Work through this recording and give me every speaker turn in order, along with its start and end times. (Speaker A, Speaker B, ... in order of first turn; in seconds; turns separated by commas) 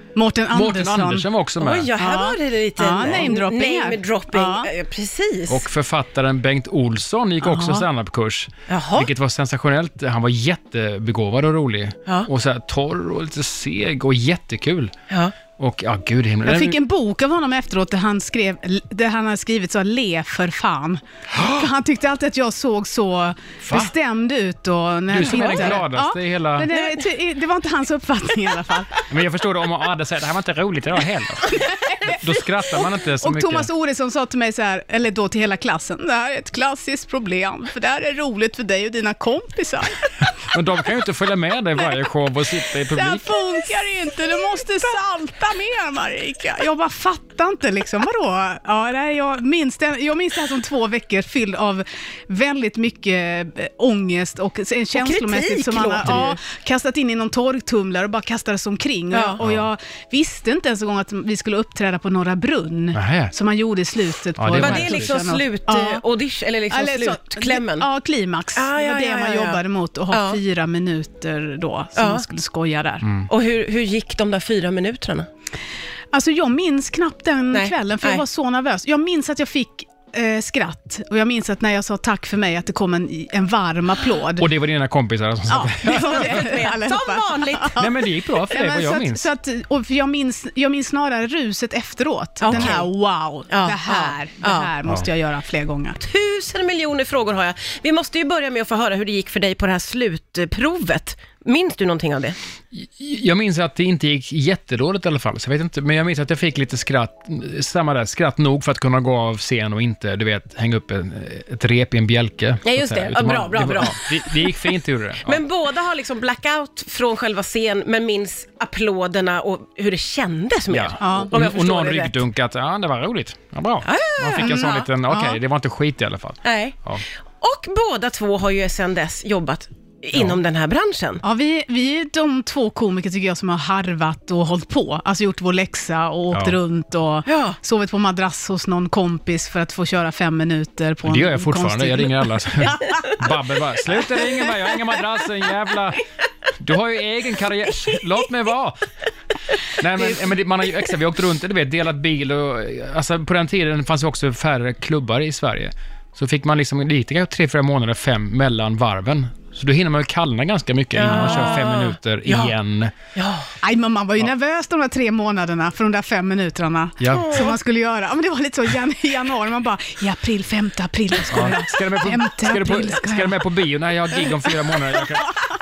Speaker A: 0.1-1.2, Speaker B: 0.5-1.9, Speaker C: 1.6-5.6, Speaker A: 2.0-4.7, Speaker B: 5.5-14.9, Speaker A: 7.4-7.8, Speaker C: 8.7-9.1, Speaker B: 15.6-16.8, Speaker A: 16.4-29.0, Speaker B: 21.3-21.6, Speaker B: 23.6-23.9, Speaker B: 25.1-26.7, Speaker C: 25.2-25.7, Speaker C: 26.7-27.1, Speaker B: 29.1-33.7, Speaker A: 31.6-32.2, Speaker A: 32.7-40.1, Speaker B: 40.5-43.5, Speaker A: 42.9-66.0, Speaker C: 54.9-56.4, Speaker C: 59.1-59.4, Speaker B: 59.4-59.6, Speaker B: 62.9-63.3, Speaker B: 64.3-65.2, Speaker C: 64.6-67.9, Speaker A: 66.7-73.0, Speaker C: 68.5-70.4, Speaker C: 72.0-72.2, Speaker B: 73.0-73.3, Speaker C: 73.3-75.3, Speaker A: 76.1-84.5, Speaker C: 77.5-78.2, Speaker B: 84.4-86.5, Speaker A: 85.5-87.9, Speaker C: 85.9-87.8, Speaker B: 87.8-89.2, Speaker A: 88.5-96.0, Speaker C: 92.4-92.9, Speaker C: 93.5-94.7, Speaker C: 96.0-102.3, Speaker B: 102.7-115.4, Speaker C: 112.6-114.7, Speaker C: 115.2-122.2, Speaker B: 120.7-127.0, Speaker A: 121.0-121.3, Speaker C: 123.8-124.9, Speaker A: 124.4-125.4, Speaker C: 126.4-126.8, Speaker C: 127.4-131.2, Speaker A: 131.2-143.2, Speaker B: 136.3-136.6, Speaker C: 137.2-137.6, Speaker B: 141.0-146.0, Speaker B: 146.6-148.9, Speaker B: 149.8-162.9, Speaker C: 160.9-162.5, Speaker C: 163.2-163.5, Speaker A: 163.6-173.4, Speaker B: 167.0-167.4, Speaker C: 167.1-167.6, Speaker B: 171.3-175.3